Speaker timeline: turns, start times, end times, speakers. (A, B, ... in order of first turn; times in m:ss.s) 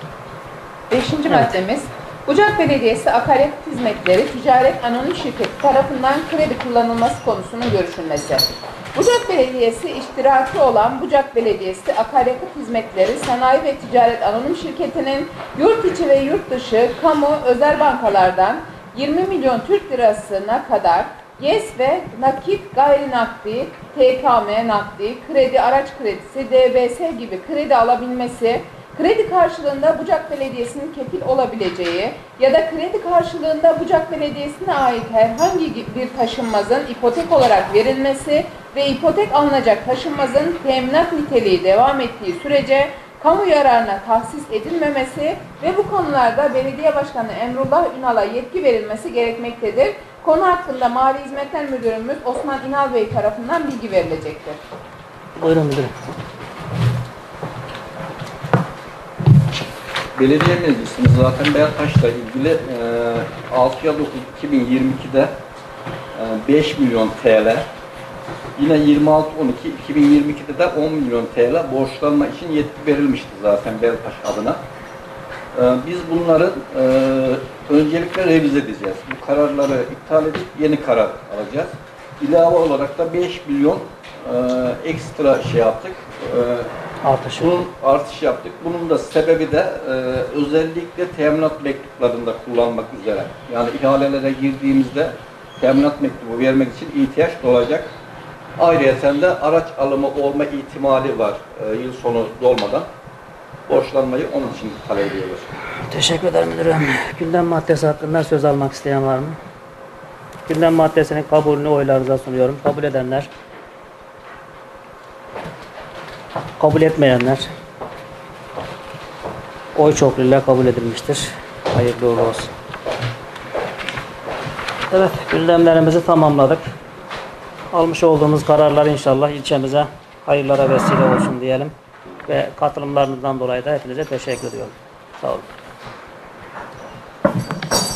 0:00.9-0:54.6 A
0:55.4-0:55.9 B
1:00.1-1:05.3 C
1:06.1-1:07.7 C
1:08.6-1:14.6 C
1:15.5-1:26.7 C
1:27.0-1:27.6 B
1:27.4-1:37.9 C
1:38.6-1:42.9 C
1:43.7-1:45.6 C
1:45.9-1:49.4 B
1:50.5-1:53.3 B
1:56.6-1:57.5 B
1:59.8-2:02.5 B
2:04.9-2:06.6 B
2:07.7-2:11.7 B
2:12.3-2:15.5 B